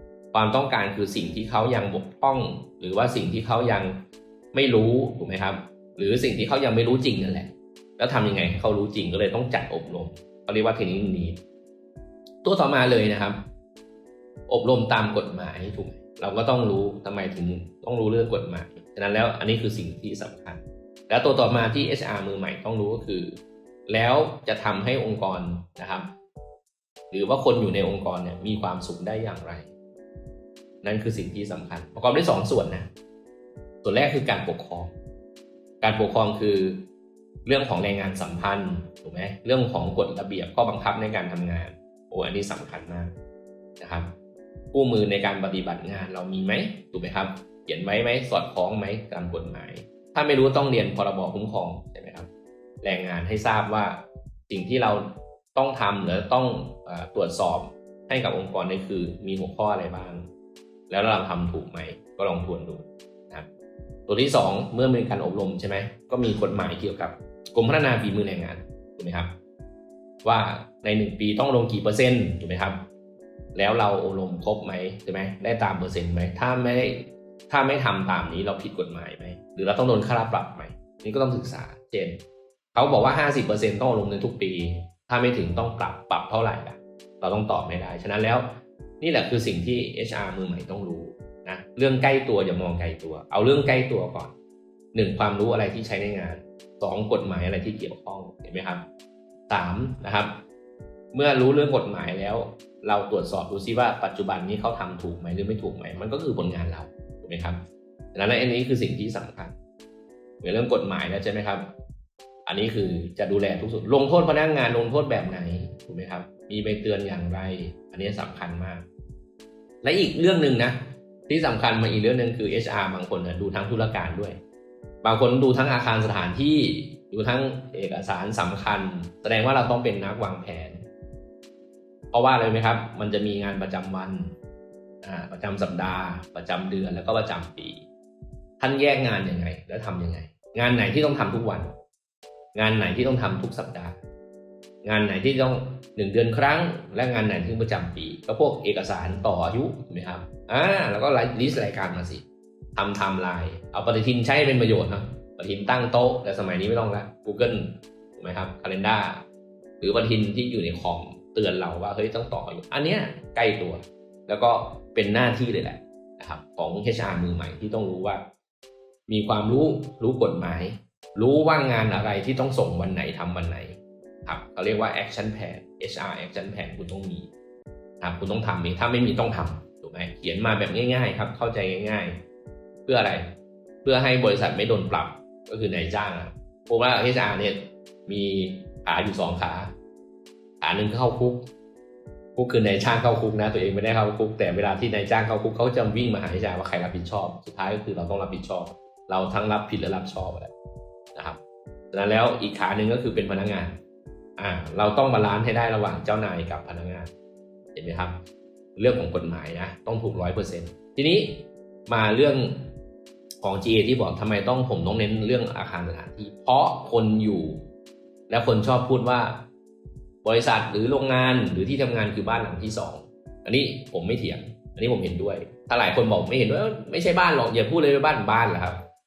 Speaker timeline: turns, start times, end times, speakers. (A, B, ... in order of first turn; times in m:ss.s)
0:00.3-0:11.4 A
0:12.4-0:13.4 A
0:14.5-0:26.1 A
0:27.1-0:29.7 A
0:30.8-0:32.9 A
0:33.8-0:34.9 A
0:35.8-0:36.8 A
0:37.4-0:43.1 A
0:43.8-0:44.1 A
0:44.7-0:52.3 A
0:52.8-1:00.2 A
1:00.9-1:03.5 A
1:04.1-1:09.3 A
1:10.2-1:12.9 A
1:13.5-1:22.2 A
1:22.7-1:34.3 A
1:34.9-1:38.8 A
1:39.5-1:40.4 A
1:41.1-1:47.6 A
1:48.1-1:49.5 A
1:50.4-1:51.7 A
1:52.4-1:58.8 A
1:59.8-2:04.4 A
2:05.0-2:10.8 A
2:12.1-2:14.3 A
2:15.0-2:17.8 A
2:18.6-2:21.7 A
2:22.5-2:24.0 A
2:24.8-2:32.2 A
2:32.8-2:39.2 A
2:39.8-2:48.2 A
2:49.1-2:57.3 A
2:58.0-3:02.2 A
3:02.8-3:09.7 A
3:10.6-3:11.5 A
3:12.4-3:20.5 A
3:21.9-3:23.8 A
3:24.4-3:27.1 A
3:27.7-3:28.2 A
3:28.8-3:32.7 A
3:33.4-3:37.6 A
3:38.3-3:39.4 A
3:40.2-3:48.9 A